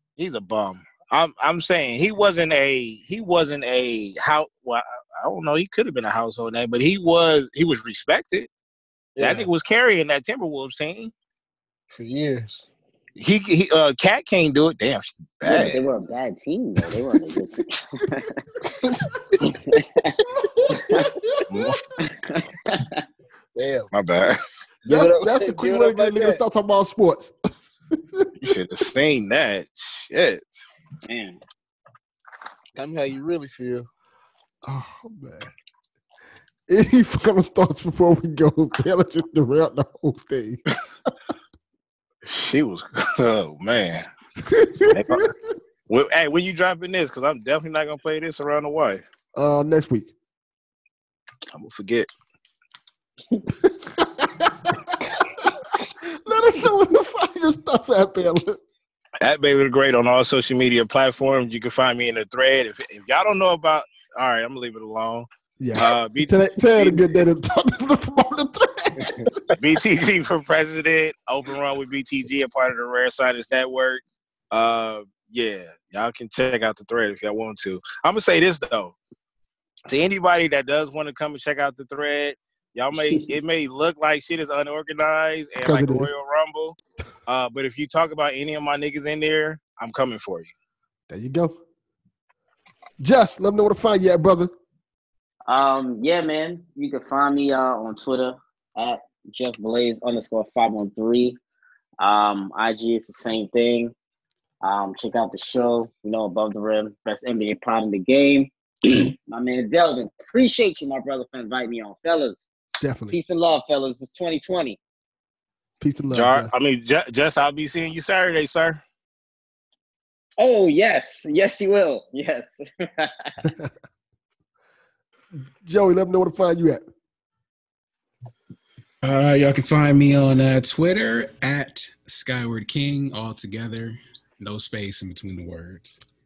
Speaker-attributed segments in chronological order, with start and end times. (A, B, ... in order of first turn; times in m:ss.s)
0:00.2-0:08.5 A
0:09.2-0:09.5 B
0:09.2-0:11.1 A
0:11.9-0:12.6 B
0:13.2-0:15.9 A
0:15.4-0:18.4 C
0:18.6-0:19.8 B
0:19.4-0:20.2 C
0:20.4-0:21.1 B
0:20.7-0:21.1 C
0:20.9-0:21.4 D
0:21.5-0:21.8 A
0:22.0-0:23.0 C
0:23.5-0:23.9 B
0:23.9-0:24.4 A
0:24.8-0:26.4 B
0:24.9-0:28.3 D
0:28.4-0:30.5 A
0:31.1-0:31.4 C
0:32.8-0:33.9 B
0:34.6-0:35.5 D
0:36.7-0:40.6 D
0:42.2-0:44.0 A
0:44.4-0:45.3 D
0:44.9-0:45.3 A
0:45.9-0:49.0 A
0:49.3-0:50.1 D
0:51.5-0:52.1 A
0:53.6-0:58.6 D
0:59.2-1:07.2 A
1:05.6-1:09.4 D
1:09.0-1:09.5 B
1:09.6-1:19.0 A
1:19.9-1:30.5 A
1:25.6-1:26.1 D
1:31.1-1:31.6 D
1:33.0-1:34.5 D
1:35.5-1:41.4 C
1:42.0-1:43.9 C
1:44.6-1:52.4 C
1:52.8-1:53.2 D
1:53.1-1:54.8 C
1:55.8-1:56.5 D
1:56.1-1:58.8 A
2:00.4-2:03.4 C
2:03.4-2:03.7 D
2:05.6-2:06.8 D
2:09.0-2:16.0 E